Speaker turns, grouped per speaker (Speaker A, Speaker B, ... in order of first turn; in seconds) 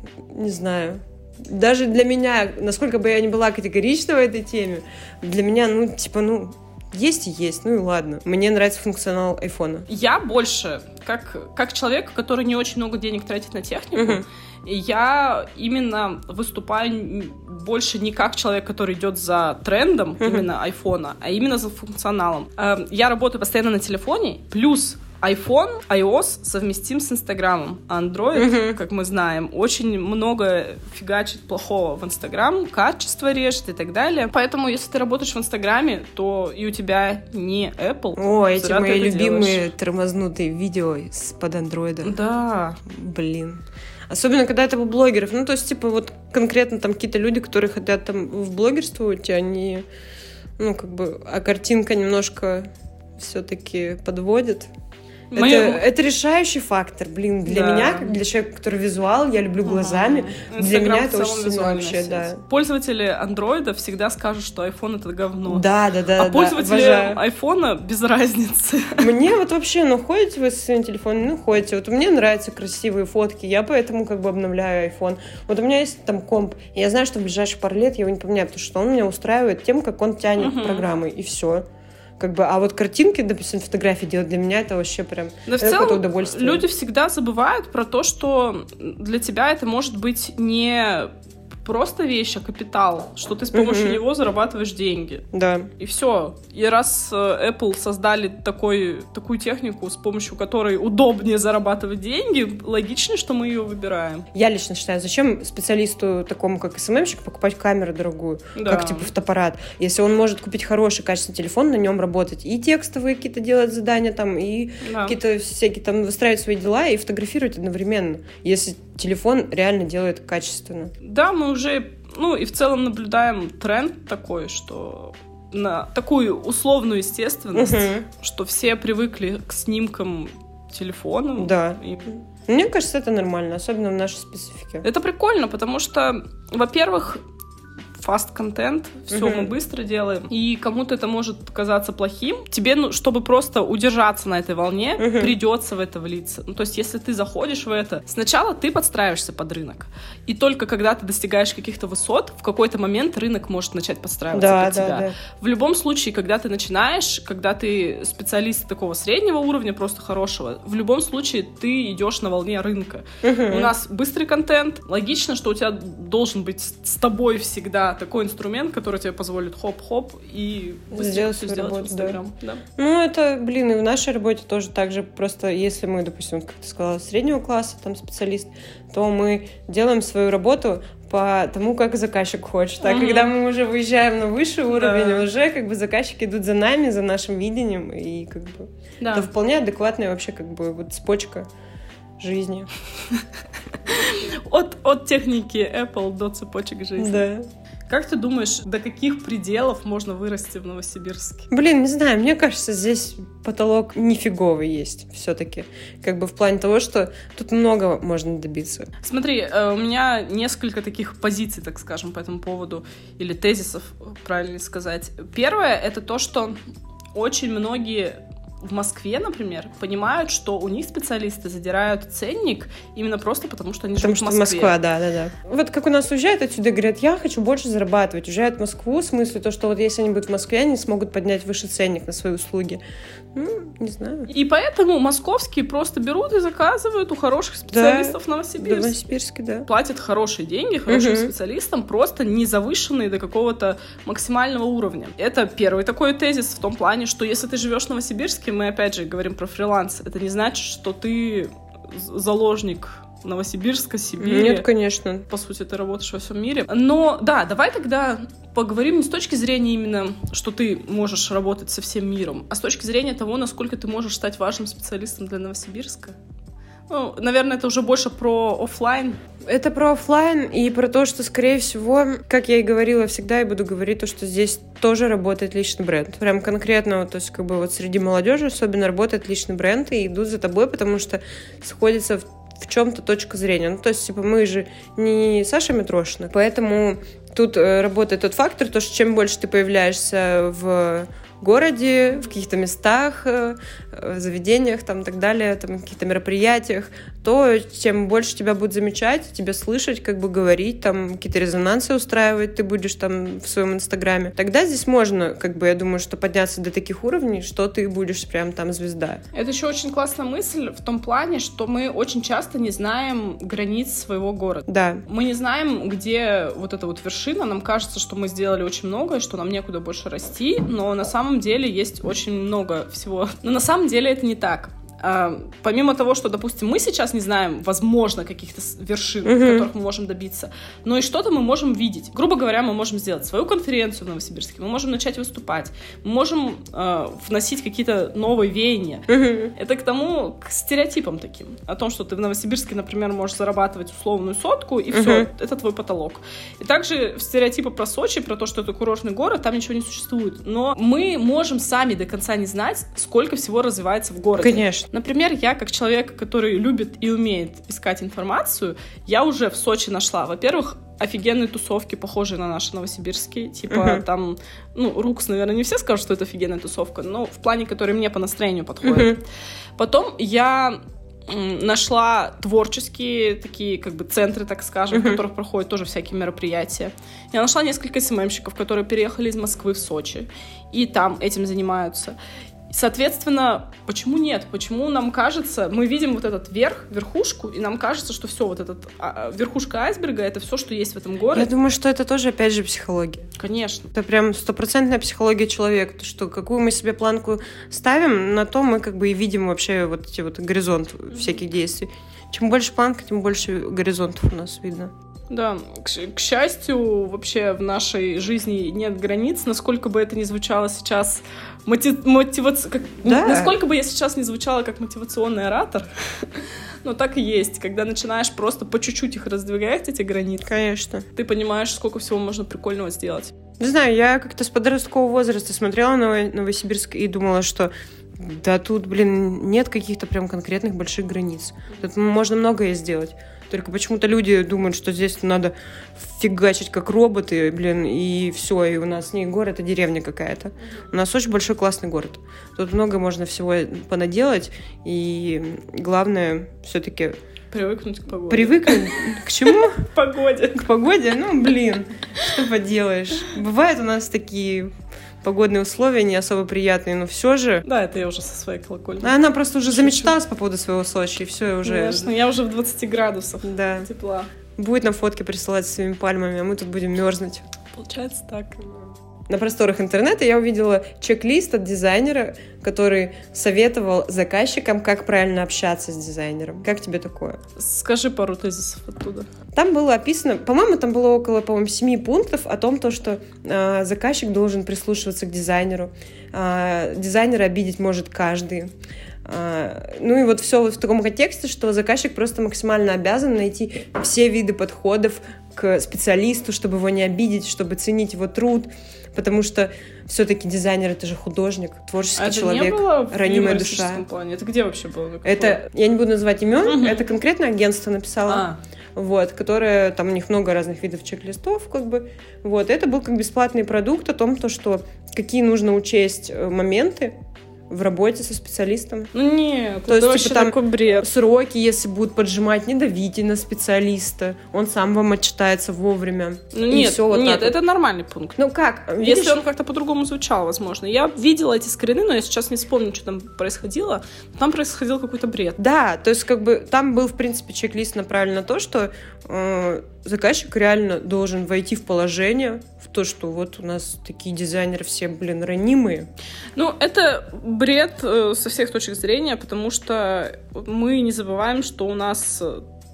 Speaker A: 0.3-9.9, 13.9-14.2, 20.2-20.5, 28.3-28.8, 38.2-42.1, 42.8-49.8, 50.6-54.7, 55.4-62.4, 65.5-67.2, 69.0-81.6, 82.2-86.6, 93.5-94.0, 95.3-95.7, 104.3-120.9, 127.5-128.1, 131.3-134.8, 139.1-139.5, 145.0-145.3, 154.3-155.1, 163.2-163.7, 170.9-172.2, 172.8-191.4, 192.2-192.7, 197.0-197.4, 201.5-208.9, 224.0-232.8, 233.3-234.3, 237.7-239.7, 240.9-241.3, 254.2-255.2, 269.4-309.2, 314.7-315.0, 329.2-329.7, 339.1-339.5, 344.9-345.3, 354.4-354.9, 363.7-364.0, 368.8-369.2, 374.9-375.2, 391.3-393.3, 393.9-404.9, 413.0-413.5, 420.4-421.1, 423.6-447.2, 448.3-449.9, 450.5-454.7, 455.2-457.6, 459.0-462.1, 463.4-463.9, 464.6-467.4, 469.3-477.4, 479.5-488.7, 489.2-504.0, 505.2-517.1, 517.7-519.1, 519.9-527.5, 528.4-529.4, 535.6-546.1
Speaker B: 9.9-39.6, 42.0-42.8, 55.3-55.8, 57.5-58.1, 59.6-65.6, 66.2-69.0, 80.4-80.8, 85.5-91.1, 91.6-95.3, 95.8-104.3, 108.5-109.1, 114.8-115.2, 121.0-132.1, 134.8-137.2, 138.0-172.6, 182.8-183.3, 184.7-185.2, 189.0-189.3, 193.9-197.2, 197.9-201.5, 209.0-216.6, 217.1-224.8, 234.3-239.0, 239.7-254.7, 255.3-266.2, 266.9-269.2, 309.3-369.2, 369.8-382.2, 382.7-391.5, 393.4-393.9, 405.3-420.5, 421.1-423.3, 447.5-450.6, 457.6-459.1, 459.7-460.1, 461.6-464.3, 467.7-468.7, 477.6-479.3, 502.2-505.6, 506.6-507.1, 508.2-508.6, 519.1-521.1, 526.5-528.4, 529.0-535.6, 546.5-552.6